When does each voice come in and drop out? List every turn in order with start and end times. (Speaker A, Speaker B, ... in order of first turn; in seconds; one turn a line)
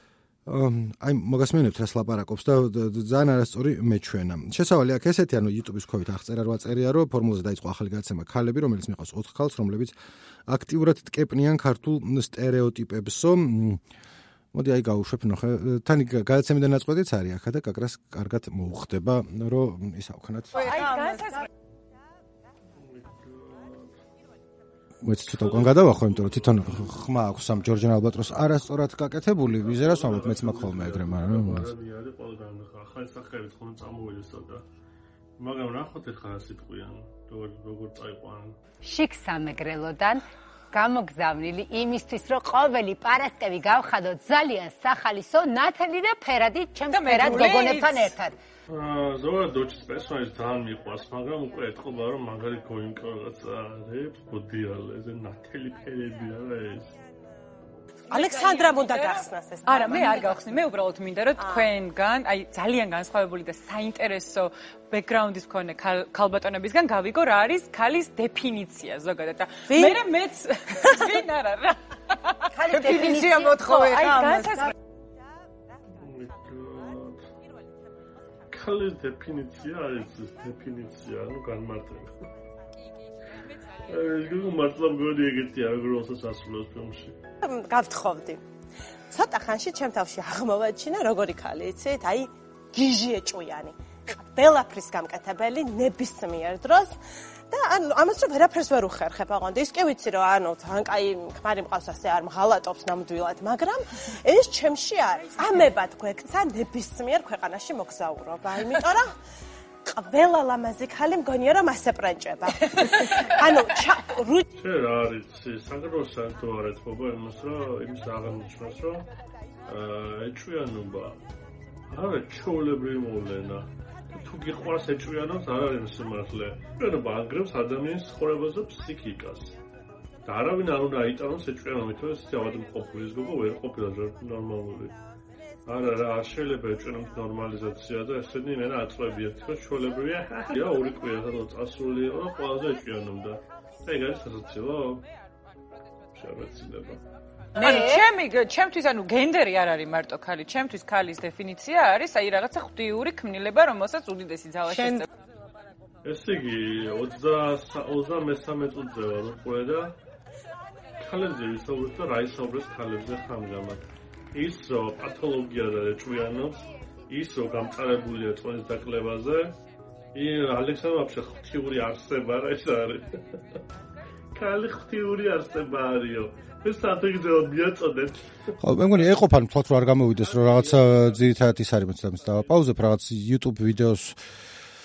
Speaker A: 0.5-9.9
Speaker A: 10.5-13.8
Speaker A: 14.5-20.6
Speaker B: 20.5-21.5
Speaker C: 20.7-21.3
Speaker D: 22.7-24.0
Speaker A: 25.0-31.7
Speaker D: 25.4-26.9
Speaker D: 29.5-34.6
Speaker D: 35.4-38.6
Speaker E: 38.8-48.4
Speaker B: 46.9-48.1
Speaker D: 48.7-56.9
Speaker C: 58.1-60.4
Speaker B: 58.1-74.7
Speaker C: 61.4-61.7
Speaker C: 69.7-70.0
Speaker E: 72.5-74.0
Speaker C: 74.0-74.7
Speaker D: 76.0-77.3
Speaker D: 78.5-82.2
Speaker D: 83.9-87.2
Speaker C: 87.4-88.4
Speaker C: 89.1-96.9
Speaker C: 97.5-109.1
Speaker C: 109.9-114.4
Speaker D: 114.6-119.1
Speaker D: 119.7-121.2
Speaker D: 121.9-129.5
Speaker D: 130.2-134.9
Speaker D: 135.7-145.1
Speaker D: 146.1-147.0
Speaker B: 147.6-155.1
Speaker E: 147.6-148.0
Speaker D: 156.0-160.0
Speaker D: 161.0-169.6
Speaker D: 170.1-173.2
Speaker D: 174.3-178.3
Speaker A: 178.6-184.2
Speaker D: 180.7-181.1